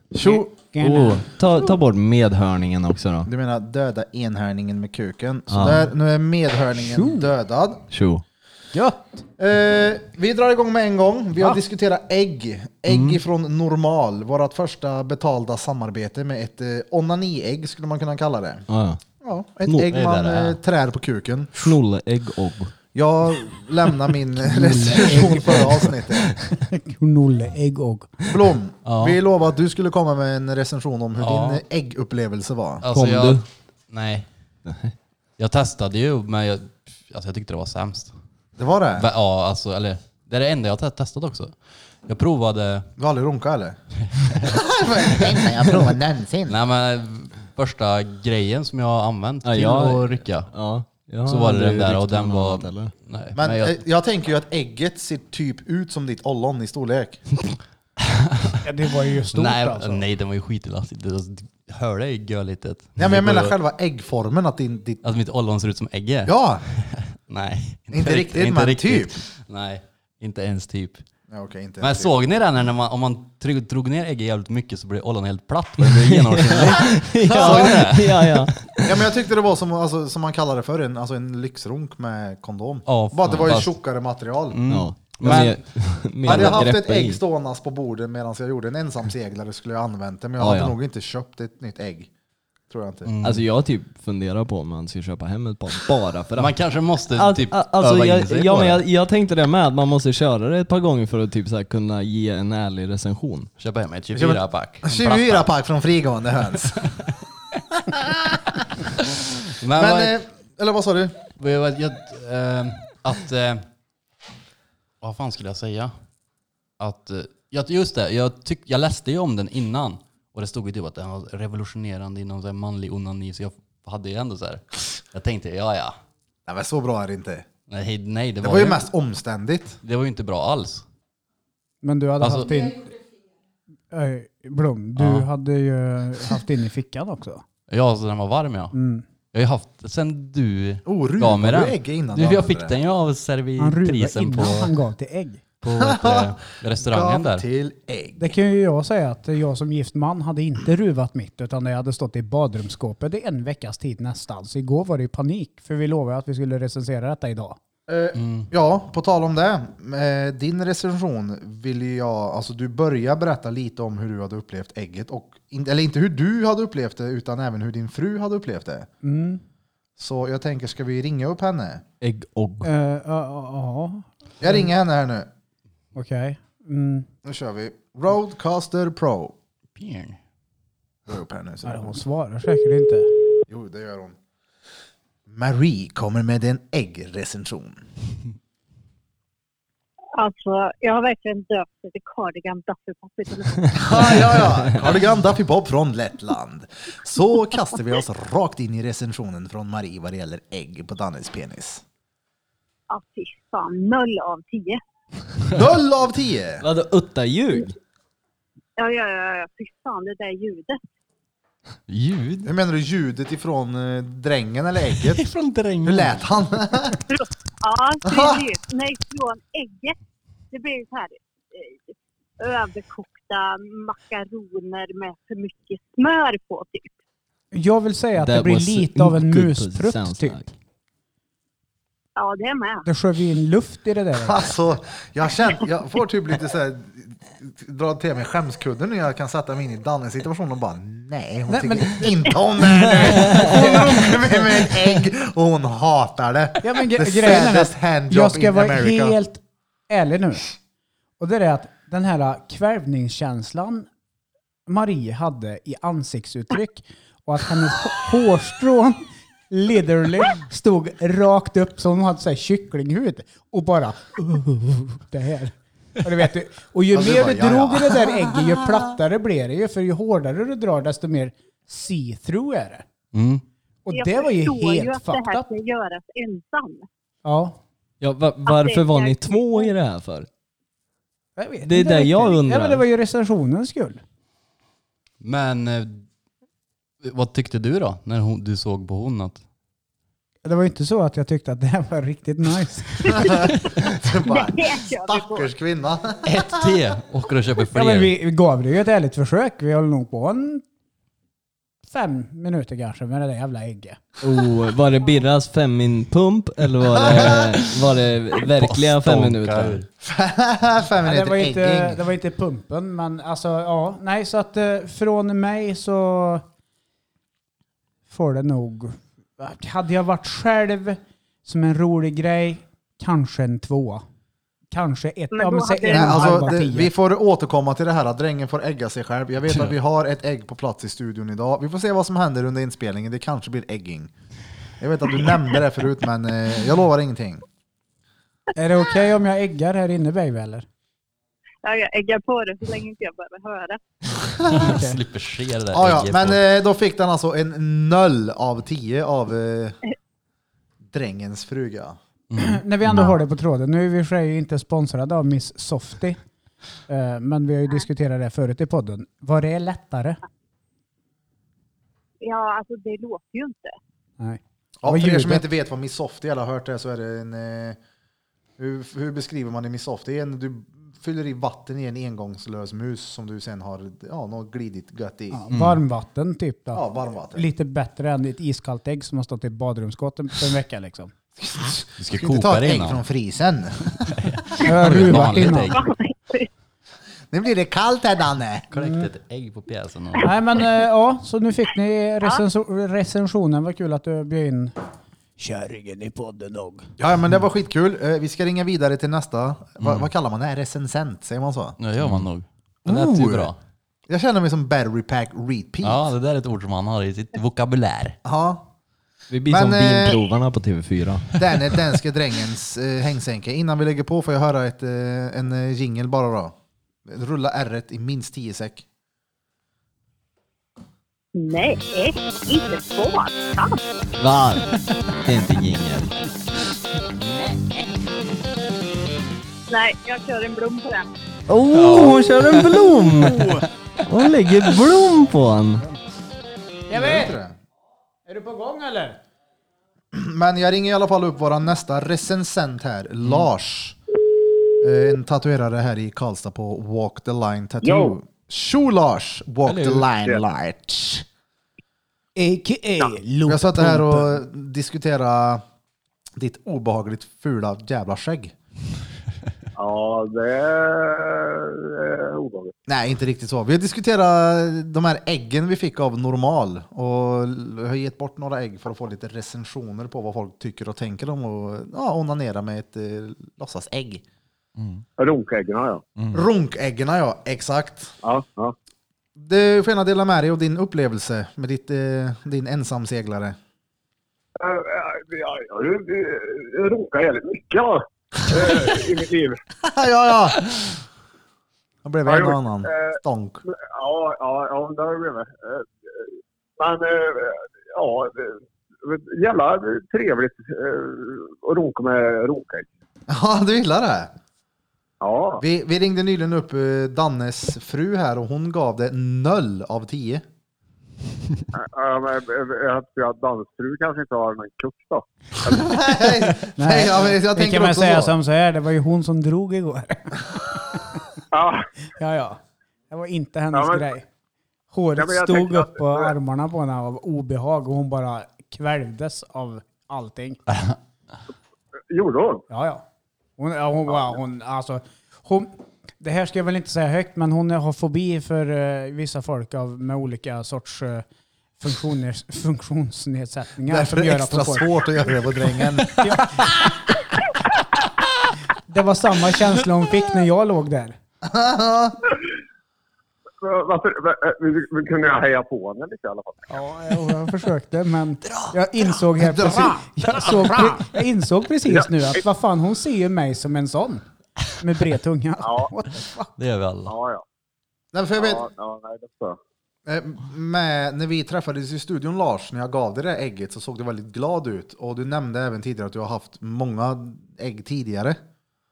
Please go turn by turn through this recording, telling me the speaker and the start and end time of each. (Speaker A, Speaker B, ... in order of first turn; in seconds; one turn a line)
Speaker A: 0.1-0.5
Speaker B: 0.2-1.3
Speaker C: 0.8-3.3
Speaker A: 3.3-7.8
Speaker C: 5.5-5.9
Speaker B: 6.8-7.3
Speaker C: 7.9-8.2
Speaker B: 8.7-9.2
Speaker A: 9.4-18.6
Speaker C: 12.9-13.2
Speaker C: 18.7-19.0
Speaker A: 19.2-21.8
Speaker D: 19.9-20.6
Speaker C: 21.6-22.7
Speaker A: 22.9-26.3
Speaker C: 24.4-26.5
Speaker B: 24.6-25.9
Speaker B: 26.7-28.3
Speaker A: 28.3-32.9
Speaker D: 28.9-29.2
Speaker D: 31.2-31.6
Speaker D: 32.8-34.3
Speaker C: 32.9-33.5
Speaker C: 34.7-35.0
Speaker D: 35.4-38.1
Speaker A: 38.6-39.1
Speaker D: 38.9-42.9
Speaker A: 43.0-43.8
Speaker D: 44.1-45.4
Speaker A: 44.4-46.6
Speaker D: 46.5-50.5
Speaker C: 49.4-52.9
Speaker D: 51.1-53.8
Speaker A: 53.4-57.2
Speaker B: 58.6-60.1
Speaker D: 59.3-63.6
Speaker A: 63.0-65.0
Speaker D: 65.0-71.0
Speaker A: 66.3-66.6
Speaker A: 67.9-69.1
Speaker A: 71.3-72.2
Speaker D: 71.8-78.5
Speaker C: 75.8-79.0
Speaker A: 77.2-77.9
Speaker A: 78.8-84.6
Speaker D: 82.8-83.8
Speaker D: 84.5-86.7
Speaker C: 84.7-87.2
Speaker A: 86.2-92.1
Speaker C: 90.4-90.8
Speaker A: 92.7-93.1
Speaker D: 93.0-93.5
Speaker C: 93.2-103.5
Speaker D: 96.4-98.8
Speaker D: 103.6-105.6
Speaker A: 104.1-106.9
Speaker A: 107.9-108.6
Speaker D: 109.6-110.2
Speaker A: 109.7-111.2
Speaker D: 111.4-113.6
Speaker D: 115.0-115.9
Speaker D: 116.8-126.0
Speaker A: 126.5-127.5
Speaker D: 127.7-128.9
Speaker A: 128.4-129.8
Speaker D: 129.8-130.8
Speaker B: 131.8-132.9
Speaker D: 132.2-132.5
Speaker B: 133.9-137.4
Speaker D: 135.0-135.3
Speaker D: 137.7-138.8
Speaker B: 138.7-139.1
Speaker D: 139.3-144.8
Speaker A: 140.9-142.8
Speaker B: 143.6-145.4
Speaker D: 145.6-147.4
Speaker A: 145.8-148.3
Speaker B: 148.2-157.6
Speaker A: 157.9-168.9
Speaker D: 158.1-158.5
Speaker B: 169.0-169.4
Speaker A: 170.0-171.8
Speaker C: 172.0-172.7
Speaker B: 172.6-174.7
Speaker A: 174.4-175.3
Speaker B: 175.9-177.1
Speaker A: 177.2-179.3
Speaker D: 179.8-180.2
Speaker A: 181.1-182.0
Speaker B: 181.7-183.1
Speaker A: 183.5-184.2
Speaker A: 185.3-187.8
Speaker E: 190.2-194.4
Speaker A: 193.7-201.8
Speaker E: 202.9-204.8
Speaker A: 205.5-206.6
Speaker C: 206.6-207.8
Speaker E: 208.8-210.8
Speaker D: 211.9-212.5
Speaker A: 212.4-215.2
Speaker D: 214.9-216.3
Speaker A: 215.8-217.0
Speaker E: 217.1-219.9
Speaker A: 218.1-218.4
Speaker E: 220.5-226.9
Speaker B: 227.5-230.4
Speaker C: 228.2-230.5
Speaker E: 232.2-232.8
Speaker B: 232.8-234.5
Speaker A: 234.2-249.2
Speaker B: 241.5-243.9
Speaker B: 246.6-250.5
Speaker B: 251.2-253.9
Speaker B: 254.7-272.9
Speaker A: 266.9-268.4
Speaker D: 273.1-273.4
Speaker B: 273.9-275.5
Speaker E: 273.9-276.9
Speaker B: 277.2-277.6
Speaker C: 278.0-280.3
Speaker E: 278.4-279.7
Speaker B: 281.4-284.0
Speaker C: 281.6-282.8
Speaker D: 285.2-286.0
Speaker D: 287.0-289.4
Speaker B: 290.4-293.1
Speaker A: 293.1-296.5
Speaker E: 293.4-295.5
Speaker D: 296.3-298.1
Speaker B: 297.8-300.6
Speaker B: 301.9-304.0
Speaker C: 304.2-309.8
Speaker D: 307.0-307.5
Speaker A: 307.1-307.5
Speaker D: 308.5-309.9
Speaker A: 310.0-312.0
Speaker B: 311.0-316.4
Speaker B: 318.1-324.0
Speaker B: 324.7-326.9
Speaker E: 325.3-326.5
Speaker A: 325.9-334.1
Speaker A: 334.8-337.4
Speaker B: 338.6-340.7
Speaker E: 341.6-343.8
Speaker D: 344.4-346.5
Speaker B: 344.5-345.0
Speaker A: 345.7-349.8
Speaker A: 350.9-352.0
Speaker D: 352.3-352.6
Speaker B: 352.4-356.2
Speaker B: 356.9-360.2
Speaker E: 362.2-363.7
Speaker B: 364.2-365.5
Speaker A: 364.8-367.8
Speaker A: 368.6-375.4
Speaker B: 375.3-381.1
Speaker D: 375.5-375.8
Speaker A: 376.7-377.5
Speaker A: 381.4-384.2
Speaker D: 382.0-383.0
Speaker D: 384.1-385.8
Speaker B: 384.6-385.8
Speaker E: 385.6-386.5
Speaker A: 387.3-388.7
Speaker D: 388.7-390.3
Speaker B: 388.8-389.1
Speaker B: 390.2-394.7
Speaker B: 395.4-396.9
Speaker A: 397.0-402.2
Speaker D: 399.8-400.1
Speaker D: 401.8-403.6
Speaker A: 402.9-403.5
Speaker A: 404.1-406.1
Speaker D: 405.8-408.2
Speaker A: 408.2-408.7
Speaker C: 409.3-411.2
Speaker A: 409.5-410.2
Speaker A: 411.4-416.5
Speaker A: 417.1-418.9
Speaker E: 421.4-423.8
Speaker C: 424.2-424.7
Speaker C: 425.2-426.1
Speaker E: 429.7-431.1
Speaker C: 431.5-435.8
Speaker D: 431.7-433.6
Speaker B: 436.9-437.4
Speaker A: 436.9-437.6
Speaker B: 438.3-439.2
Speaker A: 440.1-444.0
Speaker A: 444.8-451.2
Speaker F: 447.8-448.2
Speaker D: 449.7-450.0
Speaker F: 450.2-450.4
Speaker B: 452.4-454.4
Speaker A: 453.4-455.6
Speaker A: 456.4-458.6
Speaker F: 459.8-462.7
Speaker A: 462.9-474.2
Speaker D: 474.8-475.1
Speaker F: 475.2-476.0
Speaker D: 476.2-476.4
Speaker A: 476.3-478.1
Speaker F: 478.2-478.7
Speaker A: 479.4-483.6
Speaker F: 484.6-489.6
Speaker A: 489.8-491.0
Speaker A: 492.1-493.6
Speaker F: 492.2-496.3
Speaker F: 496.8-502.9
Speaker A: 503.3-504.3
Speaker F: 505.2-505.6
Speaker A: 505.6-510.4
Speaker F: 511.7-515.9
Speaker A: 515.7-518.4
Speaker B: 516.4-521.0
Speaker F: 521.5-521.9
Speaker B: 522.2-522.6
Speaker B: 523.1-524.3
Speaker F: 523.7-524.0
Speaker B: 524.9-530.6
Speaker F: 525.2-526.3
Speaker F: 532.1-532.6
Speaker B: 532.7-533.0
Speaker B: 533.6-541.3
Speaker B: 541.8-546.7
Speaker A: 543.9-546.5
Speaker B: 548.9-551.2
Speaker A: 551.4-552.2
Speaker F: 553.6-556.7
Speaker B: 556.7-564.2
Speaker D: 558.5-558.7
Speaker A: 559.4-560.9
Speaker F: 561.9-562.4
Speaker B: 564.8-566.5
Speaker F: 565.6-565.9
Speaker D: 566.6-567.1
Speaker F: 567.1-567.4
Speaker A: 568.1-568.6
Speaker F: 568.4-569.6
Speaker A: 570.1-578.4